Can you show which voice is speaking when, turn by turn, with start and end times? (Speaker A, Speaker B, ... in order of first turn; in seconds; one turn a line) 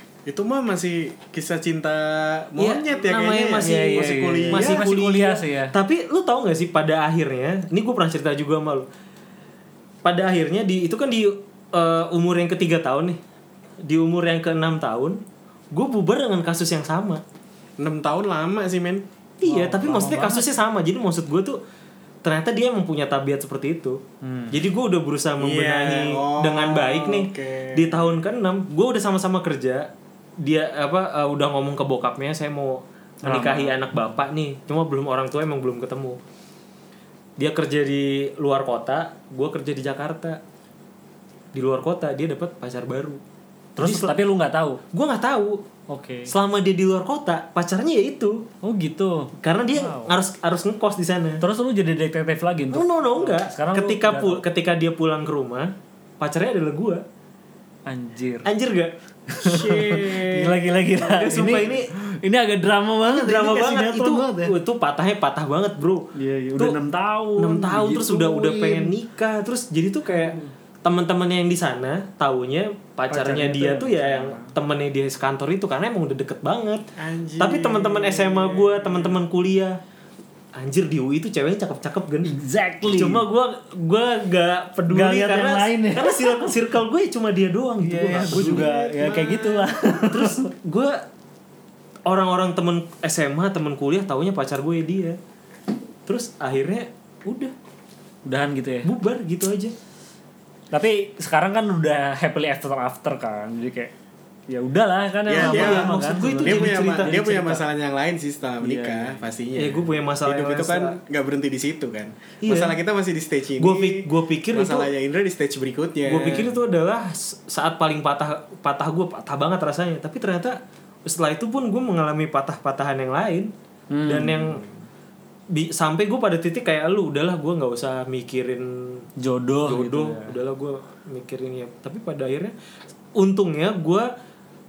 Speaker A: 0.2-4.9
Speaker B: 2.6-8.9
Speaker C: 3.6-5.7
Speaker B: 10.0-13.2
Speaker B: 13.8-15.2
Speaker B: 15.7-17.2
Speaker A: 17.8-19.0
Speaker B: 19.4-21.6
Speaker C: 19.4-20.5
Speaker B: 22.2-29.9
Speaker C: 24.2-24.6
Speaker A: 25.4-28.2
Speaker B: 30.4-36.2
Speaker C: 33.2-34.1
Speaker B: 37.4-40.4
Speaker B: 41.5-43.2
Speaker C: 43.8-44.8
Speaker B: 43.8-44.1
Speaker B: 44.9-45.6
Speaker C: 45.9-46.3
Speaker B: 46.3-48.5
Speaker C: 48.6-50.1
Speaker B: 49.4-51.4
Speaker C: 51.4-54.4
Speaker B: 52.7-57.0
Speaker C: 57.9-58.5
Speaker B: 58.4-61.9
Speaker C: 59.3-64.5
Speaker A: 59.5-60.5
Speaker B: 63.1-66.8
Speaker C: 66.1-68.9
Speaker B: 67.4-76.8
Speaker C: 70.1-70.5
Speaker C: 73.1-74.5
Speaker A: 77.0-79.2
Speaker B: 77.4-79.8
Speaker B: 80.5-82.3
Speaker C: 82.2-83.2
Speaker B: 82.9-88.7
Speaker C: 84.9-86.5
Speaker C: 87.8-90.5
Speaker A: 88.1-89.7
Speaker B: 90.1-91.0
Speaker B: 92.1-95.2
Speaker B: 96.0-97.5
Speaker C: 98.2-98.9
Speaker B: 98.8-99.7
Speaker C: 100.7-103.9
Speaker C: 104.5-107.5
Speaker A: 105.3-116.5
Speaker B: 105.3-107.6
Speaker C: 108.6-109.2
Speaker B: 109.5-111.0
Speaker B: 112.4-112.8
Speaker B: 113.6-114.9
Speaker B: 116.0-123.5
Speaker C: 123.9-124.6
Speaker B: 124.0-124.6
Speaker B: 125.5-129.1
Speaker C: 129.2-130.3
Speaker B: 129.6-132.5
Speaker B: 133.2-134.1